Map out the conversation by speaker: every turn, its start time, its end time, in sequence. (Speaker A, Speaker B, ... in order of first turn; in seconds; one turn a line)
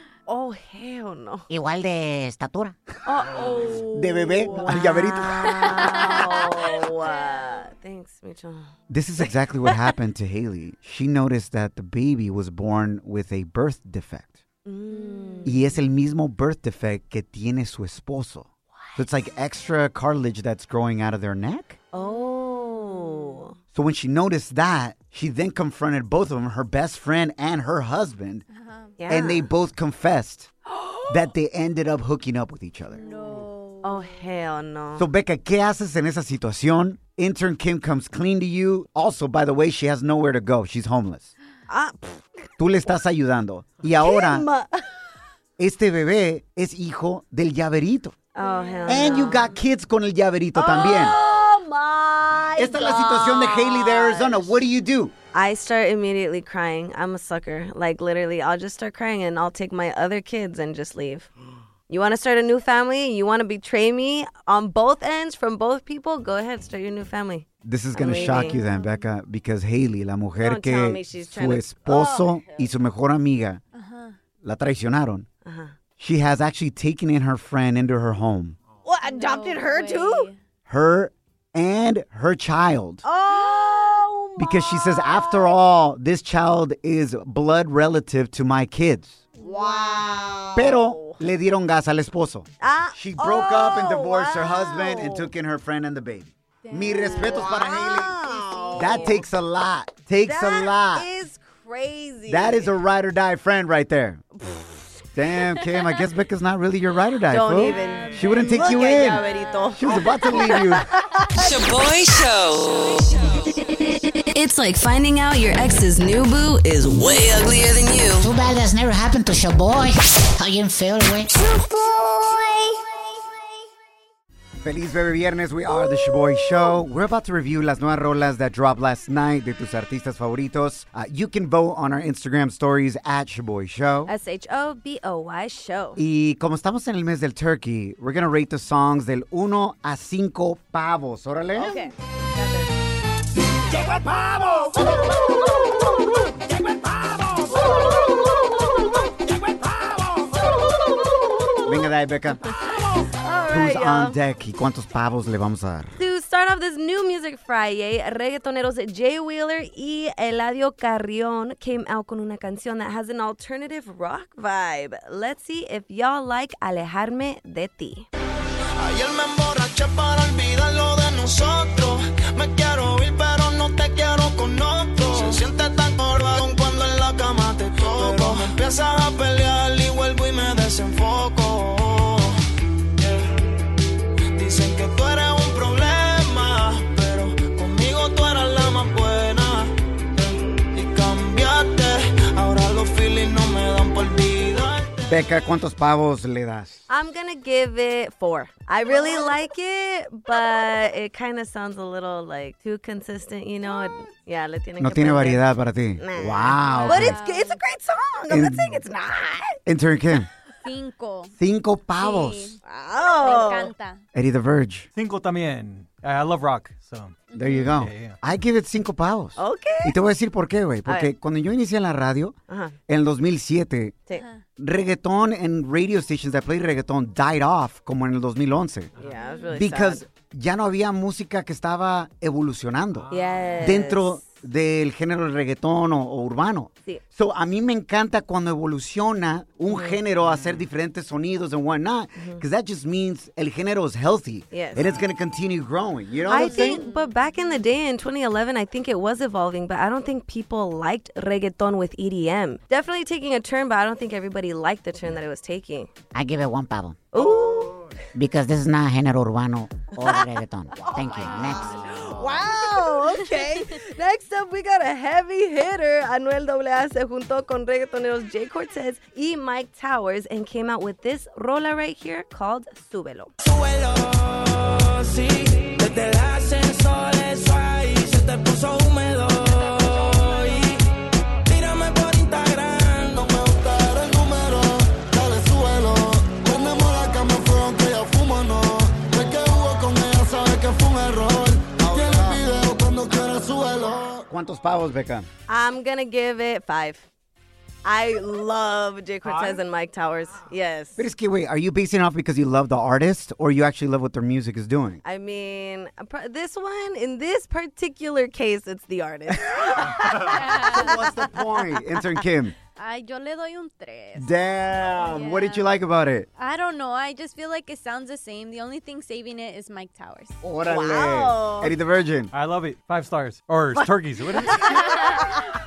Speaker A: 0.3-1.5
Speaker B: 1.5-2.8
Speaker A: 3.0-8.7
Speaker C: 3.9-5.8
Speaker D: 4.4-7.7
Speaker C: 8.9-14.4
Speaker A: 14.7-15.6
Speaker D: 14.9-15.6
Speaker C: 15.4-21.8
Speaker A: 21.9-23.5
Speaker D: 21.9-23.4
Speaker C: 23.7-28.4
Speaker D: 28.5-28.9
Speaker A: 29.0-29.5
Speaker C: 29.1-30.5
Speaker A: 30.8-31.0
Speaker C: 31.1-33.0
Speaker D: 32.9-34.3
Speaker A: 33.8-35.0
Speaker C: 35.0-41.3
Speaker A: 41.7-42.2
Speaker C: 42.6-44.5
Speaker A: 44.0-44.8
Speaker C: 45.6-48.2
Speaker A: 48.4-49.5
Speaker D: 48.4-49.5
Speaker C: 48.9-51.2
Speaker A: 50.5-54.6
Speaker C: 52.6-55.1
Speaker A: 55.3-61.3
Speaker A: 61.9-68.6
Speaker C: 67.6-73.6
Speaker D: 68.0-69.1
Speaker A: 70.4-72.8
Speaker D: 73.7-74.2
Speaker C: 74.4-75.2
Speaker A: 75.4-75.7
Speaker C: 76.0-78.6
Speaker A: 78.8-80.3
Speaker D: 79.0-80.4
Speaker C: 80.7-83.0
Speaker A: 83.0-85.6
Speaker D: 83.4-83.8
Speaker C: 84.4-89.2
Speaker D: 89.4-90.0
Speaker A: 89.4-91.2
Speaker C: 90.5-98.2
Speaker A: 92.6-95.3
Speaker D: 96.6-99.1
Speaker A: 97.0-99.2
Speaker C: 98.8-101.0
Speaker A: 100.2-102.7
Speaker C: 102.3-104.2
Speaker A: 104.4-104.9
Speaker C: 105.1-109.2
Speaker A: 107.3-111.4
Speaker D: 107.9-108.6
Speaker D: 109.4-109.6
Speaker C: 109.7-110.9
Speaker E: 111.3-113.6
Speaker A: 114.2-117.1
Speaker E: 116.9-118.3
Speaker B: 118.2-121.3
Speaker C: 124.6-134.1
Speaker A: 134.1-136.0
Speaker C: 136.0-141.8
Speaker A: 141.5-142.7
Speaker C: 151.7-152.5
Speaker A: 153.2-154.2
Speaker C: 153.5-155.9
Speaker A: 156.0-168.1
Speaker F: 168.8-182.4
Speaker F: 184.3-195.0
Speaker C: 195.1-196.8
Speaker A: 196.9-205.4
Speaker C: 204.8-207.2
Speaker A: 206.0-209.6
Speaker D: 206.6-207.6
Speaker C: 208.3-208.8
Speaker C: 209.7-210.3
Speaker D: 210.6-211.3
Speaker C: 211.4-212.5
Speaker D: 212.0-214.0
Speaker A: 212.6-213.7
Speaker C: 214.1-214.9
Speaker G: 214.9-218.2
Speaker D: 217.3-217.8
Speaker C: 217.3-222.3
Speaker A: 219.3-220.0
Speaker A: 220.8-221.1
Speaker A: 222.5-222.7
Speaker C: 222.9-224.0
Speaker D: 224.1-224.4
Speaker C: 224.6-228.9
Speaker A: 229.0-230.0
Speaker D: 229.1-229.6
Speaker C: 229.5-246.8
Speaker A: 233.1-234.2
Speaker A: 239.7-240.0
Speaker A: 242.2-242.4
Speaker A: 244.5-245.0
Speaker A: 246.2-255.9
Speaker D: 246.5-247.5
Speaker B: 256.1-257.1
Speaker A: 257.1-257.9
Speaker B: 258.1-261.8
Speaker A: 260.8-273.3
Speaker F: 273.4-280.7
Speaker F: 281.5-294.2
Speaker C: 291.8-292.3
Speaker C: 294.3-295.3
Speaker A: 295.5-297.1
Speaker A: 297.8-301.0
Speaker C: 301.0-305.0
Speaker A: 305.0-311.0
Speaker D: 310.2-311.0
Speaker C: 310.3-312.6
Speaker D: 312.8-314.3
Speaker C: 314.1-316.3
Speaker D: 314.9-315.7
Speaker D: 316.4-320.4
Speaker C: 320.4-322.3
Speaker A: 320.6-321.7
Speaker G: 322.3-324.7